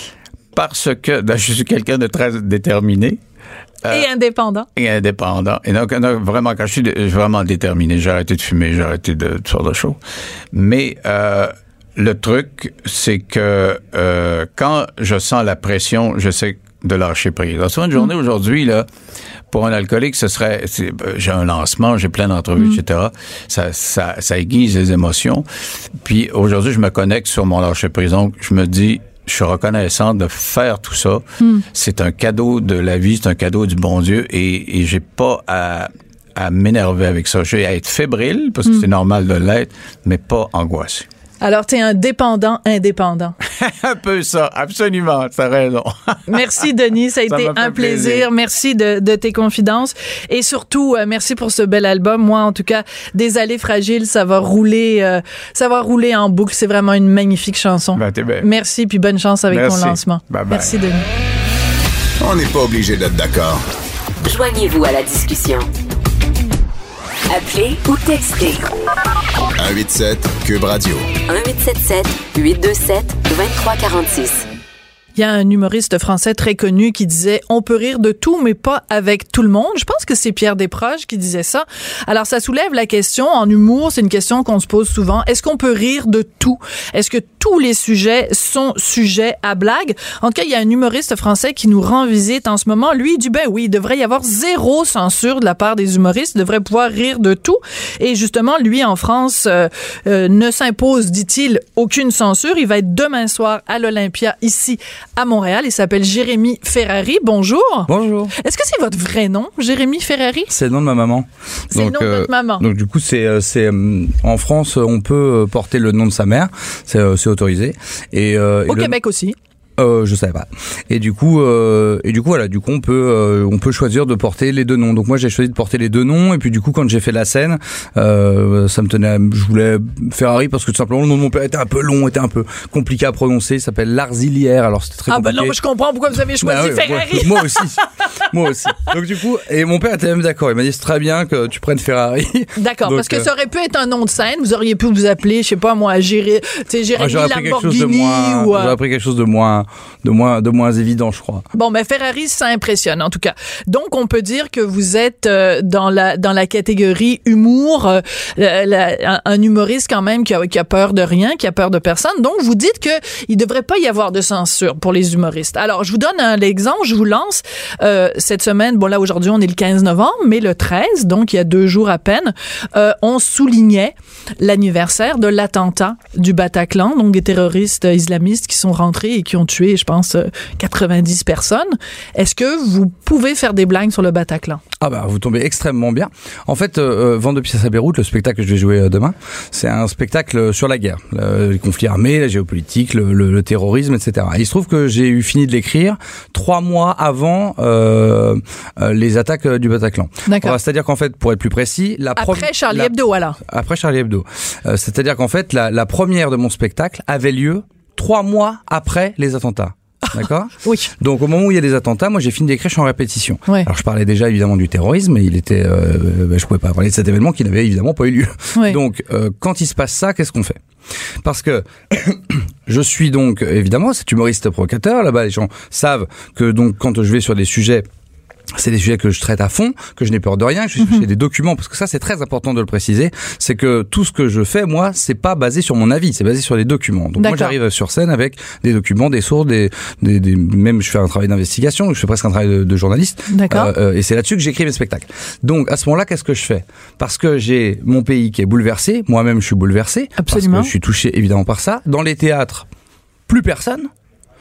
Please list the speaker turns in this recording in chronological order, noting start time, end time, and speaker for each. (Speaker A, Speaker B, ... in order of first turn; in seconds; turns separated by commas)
Speaker A: 0.5-3.2, Speaker B: 3.9-4.7, Speaker A: 4.8-10.0, Speaker A: 10.5-18.9, Speaker A: 19.5-41.1, Speaker B: 41.4-43.3, Speaker A: 43.4-46.7, Speaker B: 46.3-61.0, Speaker A: 47.3-48.3, Speaker A: 57.9-58.5, Speaker A: 59.5-60.7, Speaker C: 62.2-63.6, Speaker D: 64.2-65.7, Speaker D: 67.3-68.7, Speaker C: 69.6-71.1, Speaker D: 71.2-74.5, Speaker B: 75.2-110.5, Speaker E: 107.9-108.3, Speaker E: 110.5-119.0, Speaker B: 111.7-112.6, Speaker B: 118.7-119.3, Speaker E: 119.8-135.5, Speaker B: 135.1-137.6, Speaker E: 136.4-143.3, Speaker B: 142.6-148.8, Speaker E: 147.0-151.4, Speaker B: 151.5-184.6, Speaker E: 184.8-202.9, Speaker B: 200.2-200.6, Speaker B: 202.2-203.4, Speaker E: 203.4-220.6, Speaker B: 210.1-210.9, Speaker E: 221.2-227.9, Speaker E: 228.6-252.7, Speaker B: 230.8-231.0, Speaker B: 237.2-237.5, Speaker B: 243.3-243.7, Speaker B: 250.2-250.7, Speaker E: 253.3-253.9